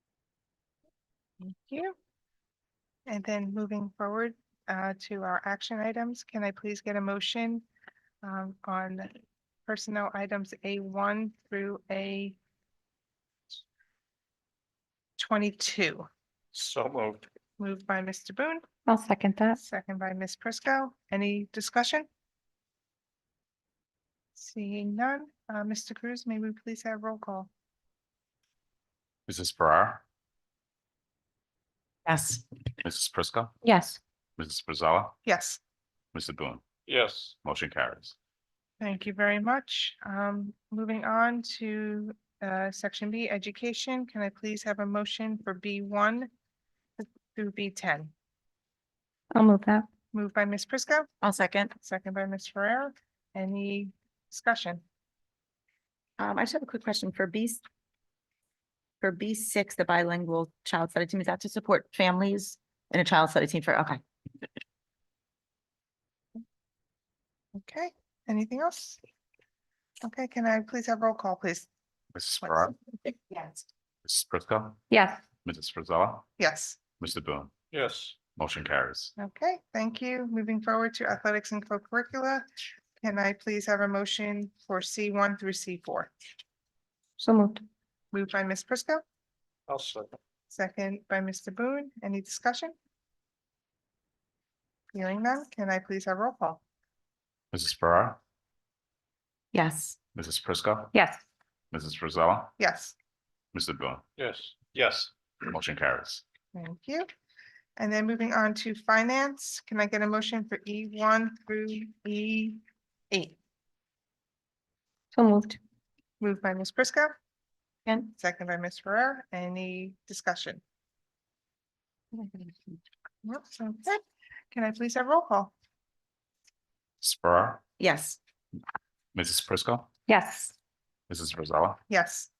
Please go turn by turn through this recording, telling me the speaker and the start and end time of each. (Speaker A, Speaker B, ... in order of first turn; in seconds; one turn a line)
Speaker A: 1.4-1.9
Speaker A: 3.1-7.6
Speaker A: 8.2-9.1
Speaker A: 9.7-12.3
Speaker A: 15.2-16.1
Speaker B: 16.5-17.2
Speaker A: 17.6-18.6
Speaker C: 18.9-19.6
Speaker A: 19.6-22.1
Speaker A: 24.4-27.5
Speaker D: 29.3-30.0
Speaker E: 32.1-32.4
Speaker D: 32.8-33.6
Speaker C: 33.6-34.0
Speaker D: 34.4-35.2
Speaker A: 35.2-35.6
Speaker D: 36.1-36.6
Speaker B: 36.9-37.3
Speaker D: 37.4-38.1
Speaker A: 38.8-46.3
Speaker A: 47.0-48.1
Speaker C: 49.3-49.9
Speaker A: 50.1-51.1
Speaker E: 51.2-51.7
Speaker A: 51.8-54.8
Speaker E: 56.2-57.6
Speaker E: 59.0-64.0
Speaker A: 67.6-69.0
Speaker A: 70.0-71.7
Speaker D: 72.1-72.8
Speaker D: 74.0-74.8
Speaker C: 74.9-75.2
Speaker D: 75.4-76.3
Speaker A: 76.4-76.8
Speaker D: 77.0-77.5
Speaker B: 77.7-78.2
Speaker D: 78.3-79.1
Speaker A: 79.2-82.5
Speaker A: 83.0-86.1
Speaker C: 87.2-87.6
Speaker A: 88.1-89.0
Speaker B: 89.7-90.2
Speaker A: 90.5-92.7
Speaker A: 94.9-96.6
Speaker D: 97.5-98.2
Speaker E: 99.5-100.0
Speaker D: 100.1-100.9
Speaker C: 100.9-101.2
Speaker D: 101.7-102.5
Speaker A: 102.6-103.0
Speaker D: 103.5-104.0
Speaker B: 104.2-105.1
Speaker D: 105.5-106.2
Speaker A: 106.5-107.1
Speaker A: 107.8-113.4
Speaker C: 115.1-115.6
Speaker A: 116.2-117.1
Speaker A: 118.1-120.6
Speaker A: 123.2-124.0
Speaker A: 124.5-125.5
Speaker D: 127.0-127.6
Speaker E: 127.8-128.2
Speaker D: 129.1-129.9
Speaker C: 130.1-130.5
Speaker D: 131.1-131.8
Speaker A: 131.9-132.3